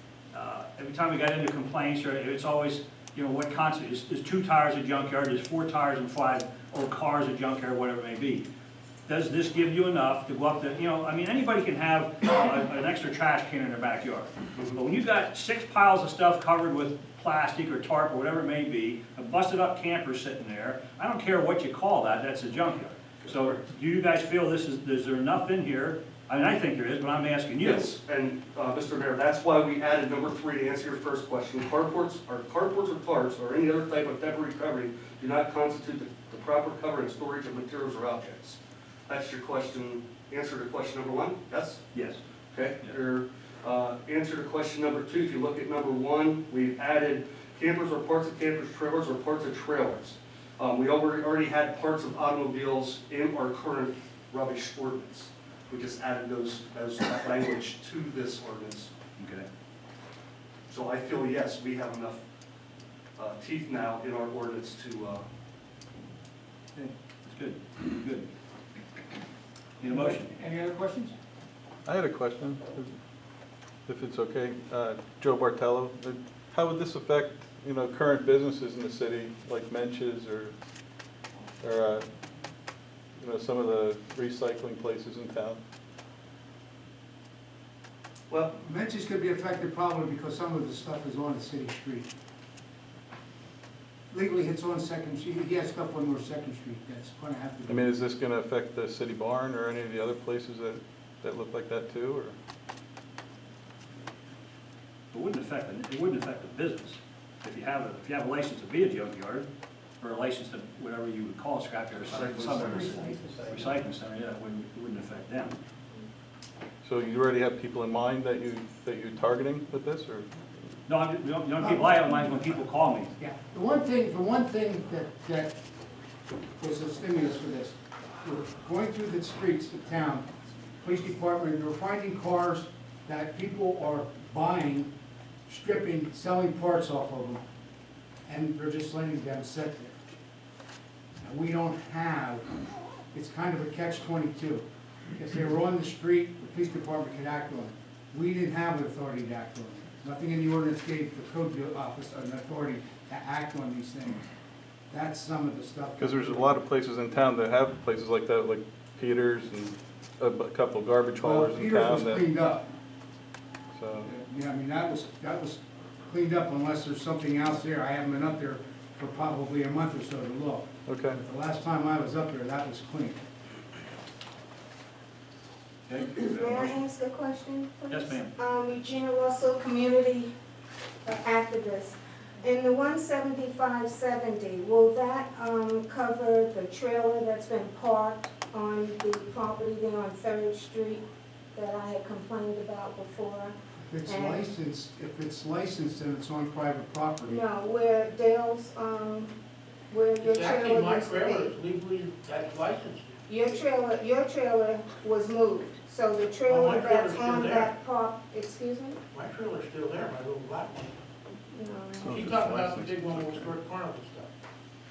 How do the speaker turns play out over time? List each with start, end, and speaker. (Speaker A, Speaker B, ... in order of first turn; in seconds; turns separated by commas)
Speaker A: 0.3-8.5, Speaker A: 9.1-27.9, Speaker B: 23.2-23.5, Speaker B: 27.6-41.8, Speaker A: 41.9-42.2, Speaker B: 42.5-58.9, Speaker A: 59.2-59.5, Speaker B: 60.7-62.2, Speaker B: 63.2-65.2, Speaker A: 66.8-68.3, Speaker A: 69.8-70.3, Speaker C: 69.9-71.1, Speaker D: 71.9-72.9, Speaker D: 73.9-80.5, Speaker D: 81.6-82.0, Speaker D: 83.2-85.6, Speaker C: 88.3-92.1, Speaker C: 94.1-97.9, Speaker D: 97.7-102.3, Speaker A: 105.1-109.5, Speaker A: 110.0-115.6, Speaker B: 112.1-113.7, Speaker D: 116.8-120.3, Speaker A: 120.9-123.1, Speaker C: 121.6-122.0, Speaker C: 123.2-125.6, Speaker C: 126.6-130.3, Speaker C: 130.8-134.9, Speaker C: 135.5-137.4, Speaker C: 138.3-140.0, Speaker C: 141.2-142.5, Speaker C: 143.1-144.7, Speaker C: 145.2-154.2, Speaker C: 154.9-156.6, Speaker D: 156.0-162.2, Speaker C: 161.2-162.7, Speaker D: 163.7-164.1, Speaker C: 164.0-173.2, Speaker D: 170.9-171.2, Speaker A: 175.9-176.7, Speaker E: 176.0-180.3, Speaker A: 177.9-178.3, Speaker E: 181.1-191.0, Speaker E: 191.6-193.6, Speaker C: 193.9-197.4, Speaker E: 194.1-194.4, Speaker E: 197.2-199.3, Speaker E: 199.9-201.5, Speaker F: 200.2-203.2, Speaker E: 203.3-209.0, Speaker F: 206.4-207.8, Speaker F: 209.1-211.0, Speaker E: 211.5-212.3, Speaker D: 212.0-213.5, Speaker F: 212.1-214.3